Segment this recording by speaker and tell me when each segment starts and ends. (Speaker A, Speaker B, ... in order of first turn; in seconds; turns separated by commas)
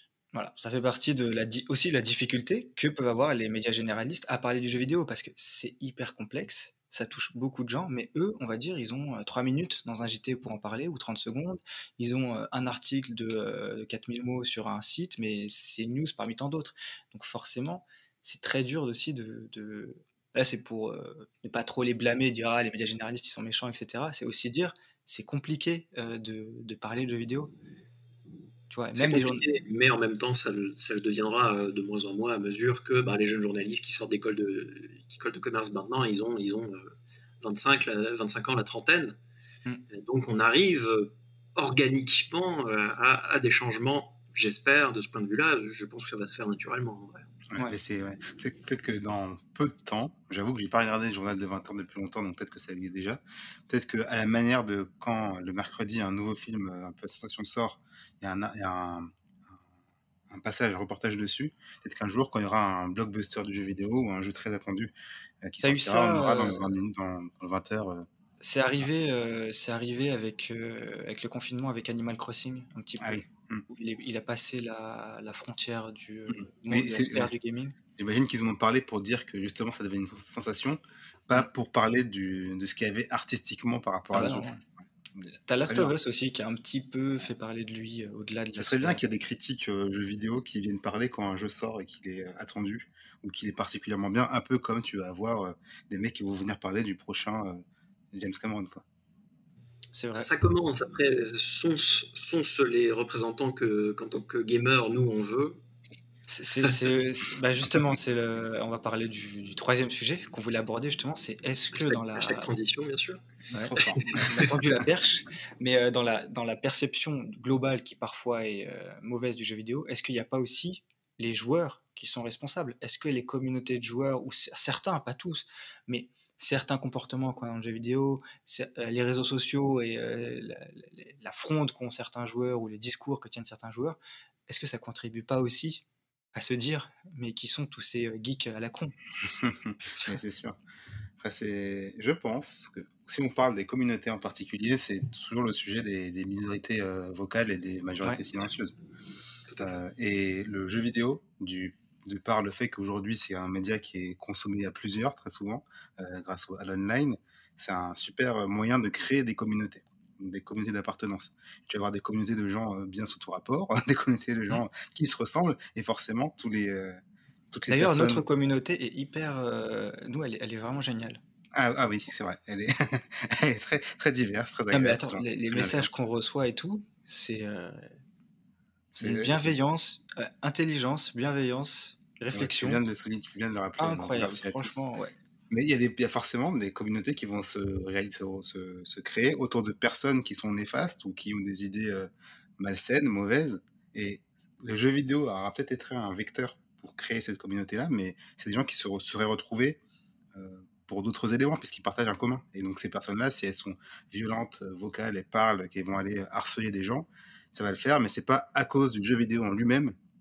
Speaker A: 0.3-27.5, Speaker A: 28.7-29.4, Speaker B: 29.0-39.2, Speaker B: 39.9-47.3, Speaker C: 47.5-59.1, Speaker C: 60.3-68.1, Speaker A: 65.6-66.7, Speaker A: 68.4-77.7, Speaker C: 73.0-73.6, Speaker C: 76.7-77.3, Speaker C: 78.0-84.6, Speaker A: 84.1-84.6, Speaker A: 85.5-89.0, Speaker C: 85.6-85.9, Speaker C: 88.6-97.6, Speaker C: 98.1-98.8, Speaker A: 100.0-100.3, Speaker B: 100.2-105.6, Speaker A: 106.3-112.5, Speaker B: 111.8-113.2, Speaker C: 113.5-114.3, Speaker A: 113.5-135.8, Speaker B: 114.0-114.5, Speaker A: 136.3-138.9, Speaker C: 139.2-140.6, Speaker C: 141.2-148.7, Speaker B: 149.5-149.8, Speaker C: 149.6-167.0, Speaker C: 167.5-168.2, Speaker A: 167.7-171.2, Speaker C: 171.6-175.9, Speaker A: 174.7-177.9, Speaker C: 178.9-179.5, Speaker A: 179.0-182.8, Speaker C: 182.3-184.8, Speaker A: 183.8-185.1, Speaker C: 185.5-199.8, Speaker C: 200.3-209.9